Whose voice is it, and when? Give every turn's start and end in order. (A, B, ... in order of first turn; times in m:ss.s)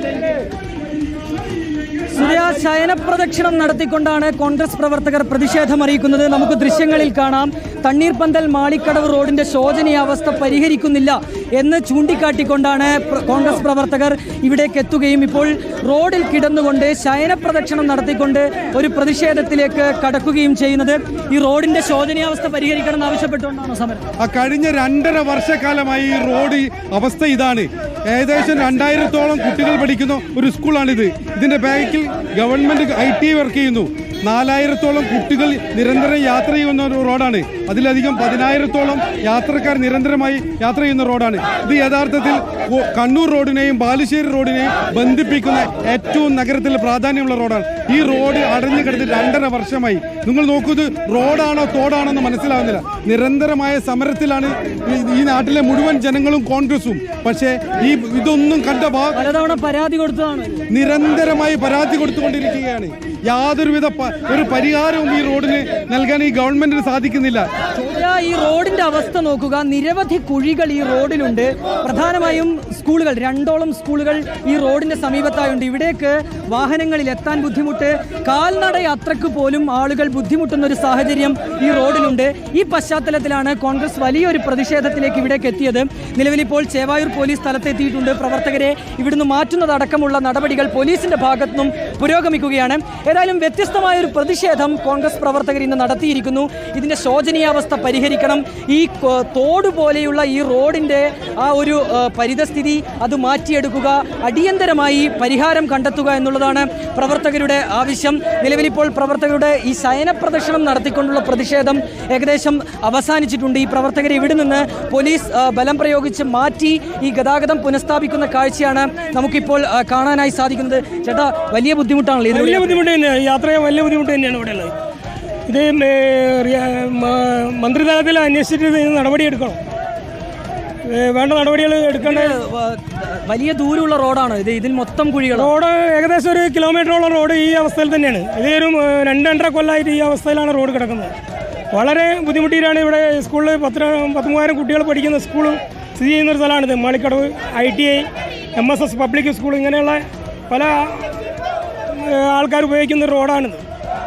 0:02.2-0:24.0 A
0:24.2-0:59.2 B
0:59.2-1:00.6 A
1:00.7-1:07.5 B
1:07.8-2:02.8 A
2:02.3-2:04.7 C
2:05.5-2:09.6 C
2:10.9-2:12.4 C
2:12.0-2:15.5 A
2:15.3-2:21.1 C
2:21.7-2:31.1 C
2:31.9-2:33.6 C